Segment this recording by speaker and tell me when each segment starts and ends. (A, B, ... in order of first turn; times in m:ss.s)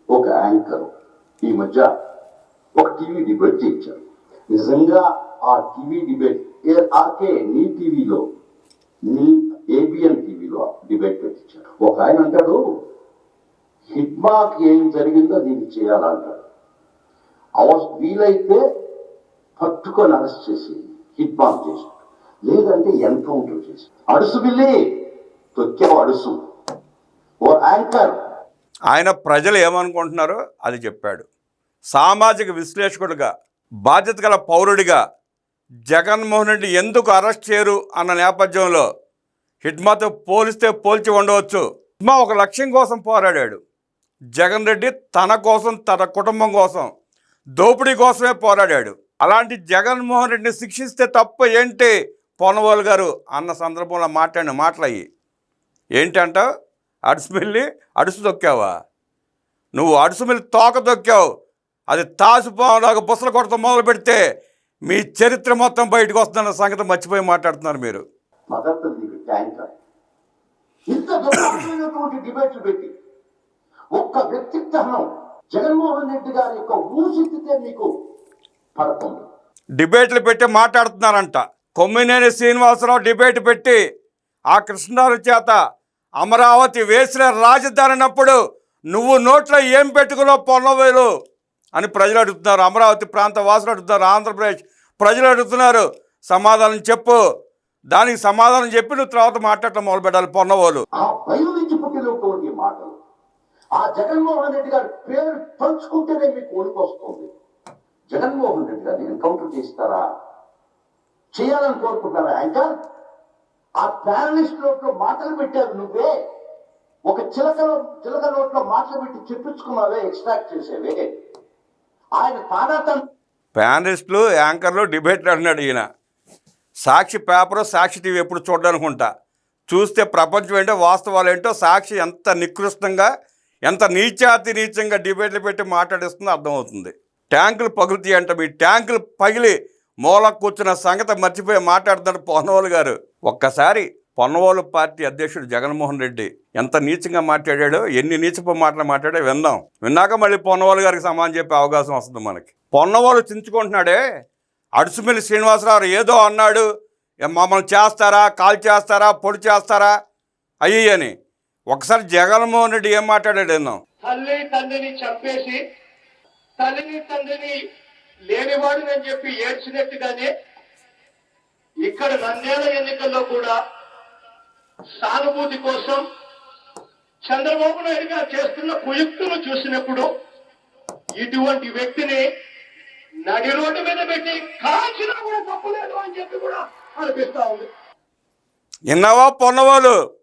0:00.1-0:00.9 A
0:01.4-0:01.9 A
0:02.8-0:04.0 A
0:04.5-0:08.2 A
0:09.1-0:12.6 A
0:13.9-0:16.4 A
0:17.6-0:18.6 A
0:19.6-0:21.9 A
0:22.5-0:24.8 A
0:25.6-0:26.3 A
0:27.4-0:28.1 A
0:28.9-0:31.3 B
0:31.9-0:33.3 B
0:33.8-0:35.0 B
0:35.9-0:38.8 B
0:39.6-0:43.6 B
0:44.4-0:46.9 B
0:47.6-0:55.0 B
0:56.0-0:56.4 B
0:57.1-0:58.7 B
0:59.8-1:01.2 B
1:01.9-1:04.2 B
1:04.9-1:08.0 B
1:08.5-1:09.7 A
1:10.9-1:12.9 A
1:13.9-1:17.9 A
1:18.8-1:19.2 A
1:19.8-1:23.8 B
1:24.5-1:25.6 B
1:26.2-1:28.4 B
1:28.9-1:31.1 B
1:31.8-1:37.2 B
1:37.9-1:40.8 B
1:41.0-1:42.9 A
1:43.8-1:47.3 A
1:48.1-1:50.0 A
1:51.3-1:52.7 A
1:53.8-1:56.1 A
1:57.1-2:01.1 A
2:02.2-2:03.0 A
2:03.6-2:05.8 B
2:06.8-2:09.1 B
2:09.7-2:13.1 B
2:13.7-2:34.0 B
2:34.8-2:36.6 B
2:37.2-2:39.9 B
2:40.6-2:41.1 B
2:41.7-2:43.8 B
2:44.0-2:45.6 C
2:46.6-2:47.6 C
2:48.3-2:50.3 C
2:51.8-2:53.6 C
2:55.0-2:56.0 C
2:57.2-3:00.1 C
3:01.2-3:02.2 C
3:03.3-3:07.7 C
3:08.9-3:09.9 B